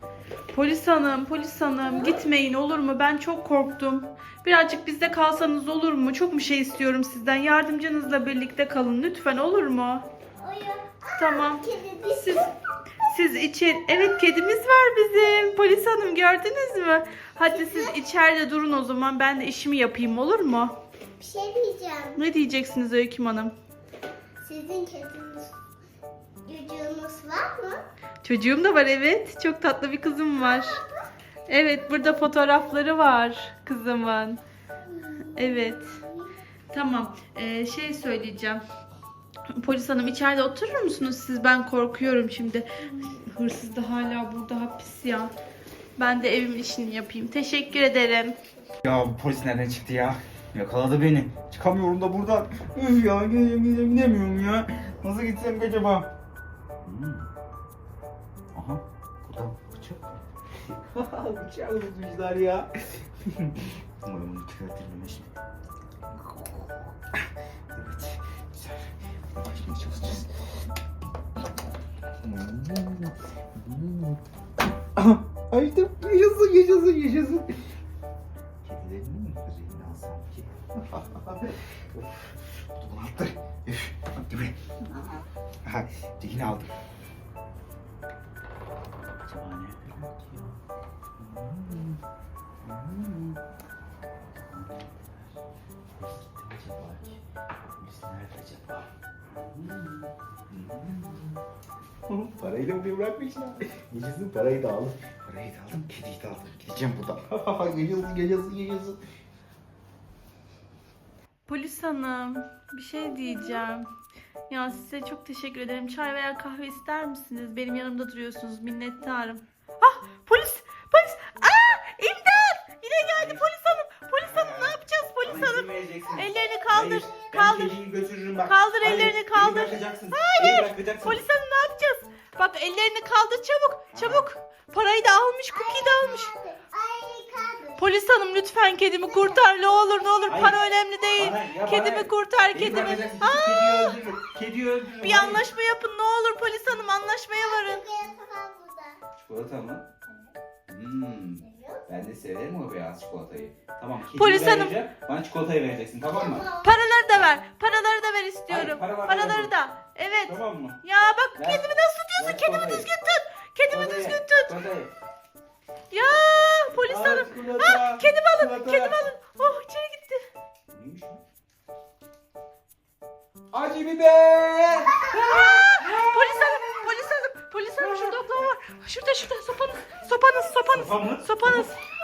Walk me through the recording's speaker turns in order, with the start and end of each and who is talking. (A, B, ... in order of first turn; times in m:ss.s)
0:00.5-0:10.1 A
0:01.8-0:02.2 B
0:10.4-0:12.4 B
0:11.2-0:12.5 A
0:13.1-0:20.8 A
0:17.5-0:18.0 B
0:21.2-0:22.2 B
0:22.1-0:23.5 A
0:24.4-0:25.5 B
0:26.4-0:27.8 B
0:28.2-0:30.8 A
0:30.4-0:31.1 B
0:31.5-0:34.4 A
0:34.8-0:36.3 B
0:35.3-0:36.0 A
0:36.7-0:38.6 A
0:39.5-0:45.3 A
0:46.0-0:48.4 A
0:48.8-0:56.1 C
0:56.8-0:57.3 C
0:58.5-1:02.7 C
1:03.2-1:05.4 C
1:06.1-1:10.3 C
1:12.2-1:14.2 C
1:15.0-1:17.6 C
1:18.6-1:24.6 C
1:25.0-1:25.2 B
1:25.6-1:26.7 C
1:29.2-1:30.6 C
1:31.2-1:32.0 C
1:32.6-1:33.4 C
1:34.4-1:35.2 C
1:36.0-1:41.4 C
1:42.1-1:49.0 C
1:51.5-1:53.8 A
1:54.5-2:07.8 A
2:03.1-2:03.5 C
2:04.2-2:11.2 C
2:08.4-2:16.3 A
2:13.9-2:14.3 C
2:15.5-2:17.9 B
2:17.8-2:24.1 A
2:19.0-2:19.5 B
2:20.3-2:20.6 C
2:21.2-2:25.4 C
2:25.0-2:27.8 A
2:27.4-2:29.0 B
2:29.2-2:29.8 C
2:30.7-2:36.5 C
2:31.4-2:31.8 B
2:34.1-2:34.7 A
2:36.1-2:36.7 B
2:36.6-2:44.6 A
2:38.5-2:39.5 C
2:40.2-2:40.8 C
2:41.4-2:42.9 C
2:43.7-2:44.9 C
2:45.9-2:50.2 A
2:46.7-2:49.0 C
2:50.7-2:51.2 C
2:53.5-2:56.5 C
2:55.1-3:01.8 A
2:57.8-2:58.2 C
3:00.6-3:01.7 C